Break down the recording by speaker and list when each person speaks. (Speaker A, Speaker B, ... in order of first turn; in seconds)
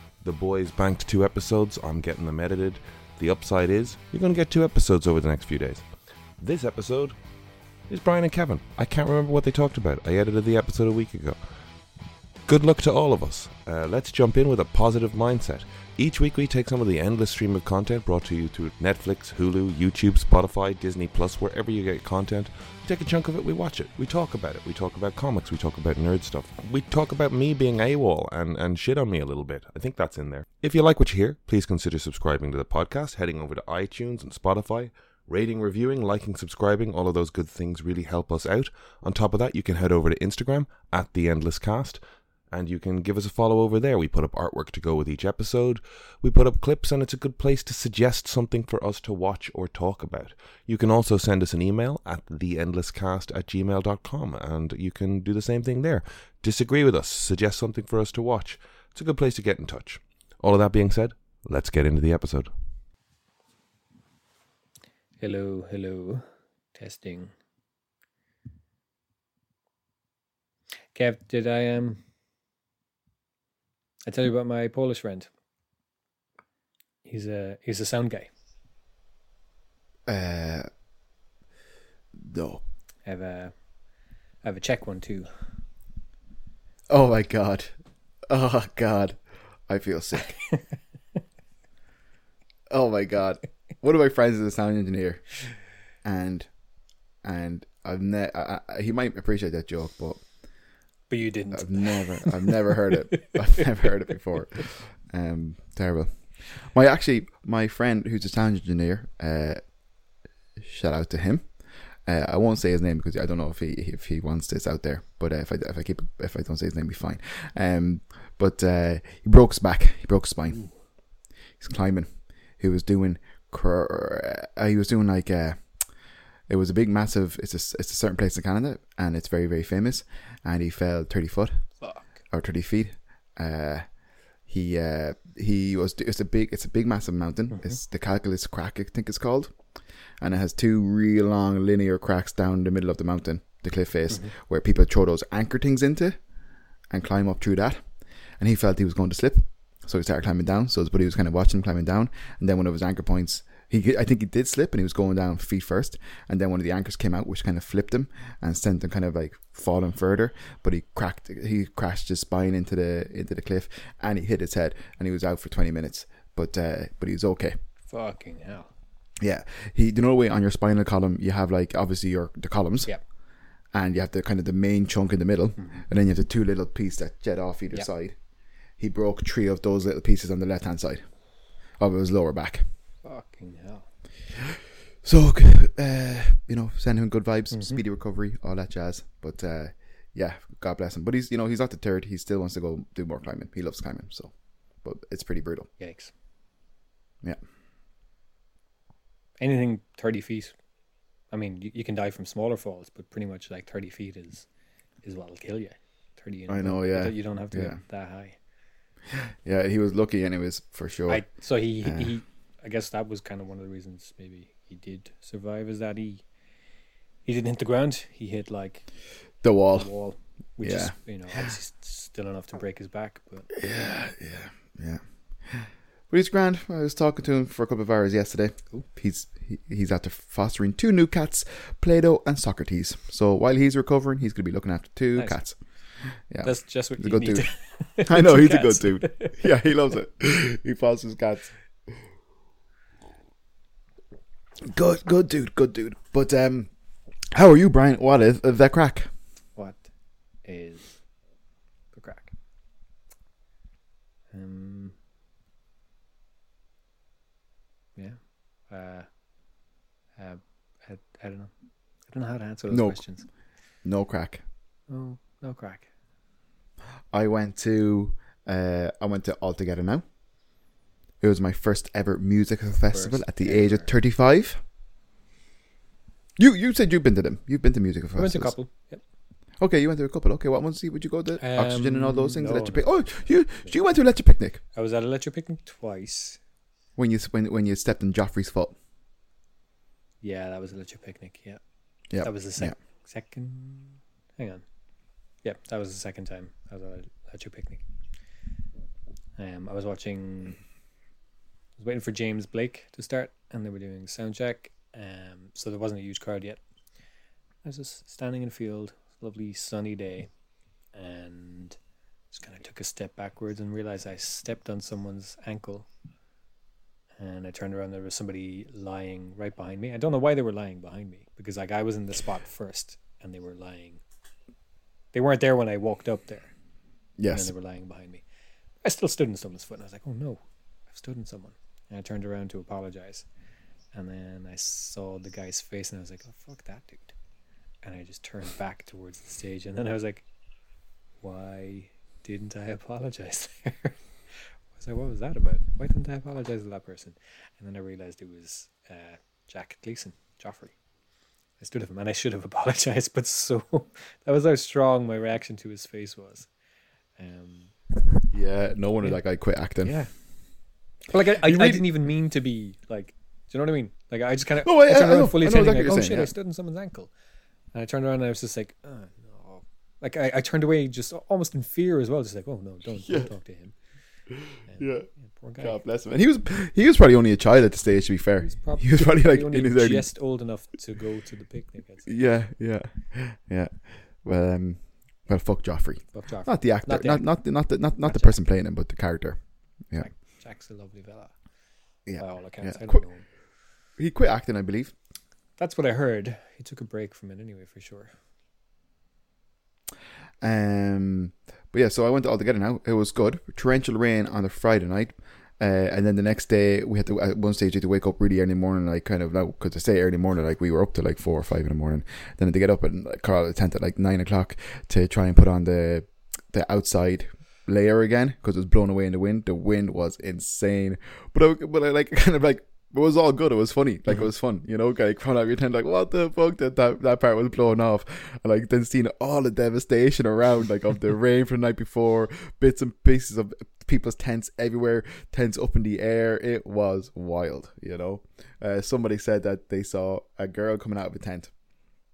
Speaker A: 0.2-5.8, 6.4-7.2, 7.9-11.4, 12.5-42.0, 42.5-62.5
Speaker B: 65.2-66.2, 66.7-67.3, 70.9-72.0, 74.0-75.3, 77.0-78.3, 83.0-83.5, 84.4-85.3, 101.1-103.3, 131.8-132.2, 167.9-168.7, 175.6-175.8, 183.0-183.8, 187.5-187.8, 195.8-196.1, 199.4-200.5, 201.3-204.4, 205.0-208.4, 211.1-216.2, 217.2-218.8, 219.7-223.5, 236.4-239.5, 249.6-249.9, 250.4-251.0, 251.9-252.3, 254.3-254.9, 258.7-259.1, 260.2-261.5, 262.1-263.2, 264.9-265.9, 272.9-273.9, 278.1-279.0, 281.4-282.9, 284.7-286.4, 290.2-291.6, 292.2-294.6, 295.4-297.8, 299.4-300.6, 301.8-306.6, 307.6-310.3, 310.9-311.8, 312.3-315.9, 317.2-324.0, 325.1-326.5, 327.3-328.2, 328.8-333.2, 333.9-337.1, 337.8-340.2, 341.2-344.0, 344.8-350.7, 351.6-356.5, 357.2-357.7, 359.8-360.1, 361.1-367.1, 367.7-373.7, 374.7-375.8, 378.4-382.2, 386.1-387.3, 388.0-388.3, 390.0-391.3, 392.2-393.2, 395.6-398.1
Speaker C: 80.1-80.7, 82.2-82.6, 86.9-87.7, 88.3-90.3, 92.7-95.2, 96.0-96.5, 97.2-100.2, 101.5-109.6, 110.6-111.4, 112.0-120.6, 121.6-122.1, 122.6-125.6, 126.5-131.6, 132.3-133.8, 134.5-139.5, 140.2-146.2, 146.9-147.8, 148.4-167.6, 169.2-172.9, 173.7-178.2, 178.8-181.0, 181.8-182.6, 185.0-194.3, 194.8-195.7, 206.5-207.8, 209.1-211.2, 211.8-212.1, 219.4-219.9, 220.6-220.9, 223.5-235.6, 236.3-237.5, 238.0-241.5, 244.6-246.7, 247.3-249.1, 262.7-263.0, 263.8-264.4, 267.1-270.0, 271.2-274.6, 276.4-278.5, 279.6-284.6, 287.0-288.8, 292.1-292.7, 327.2-327.5, 358.3-359.9, 361.4-361.9, 364.6-366.3, 373.0-373.3, 374.3-375.1, 375.6-380.1, 382.1-383.7, 384.2-389.4, 392.1-393.0, 394.0-394.9, 400.4-441.5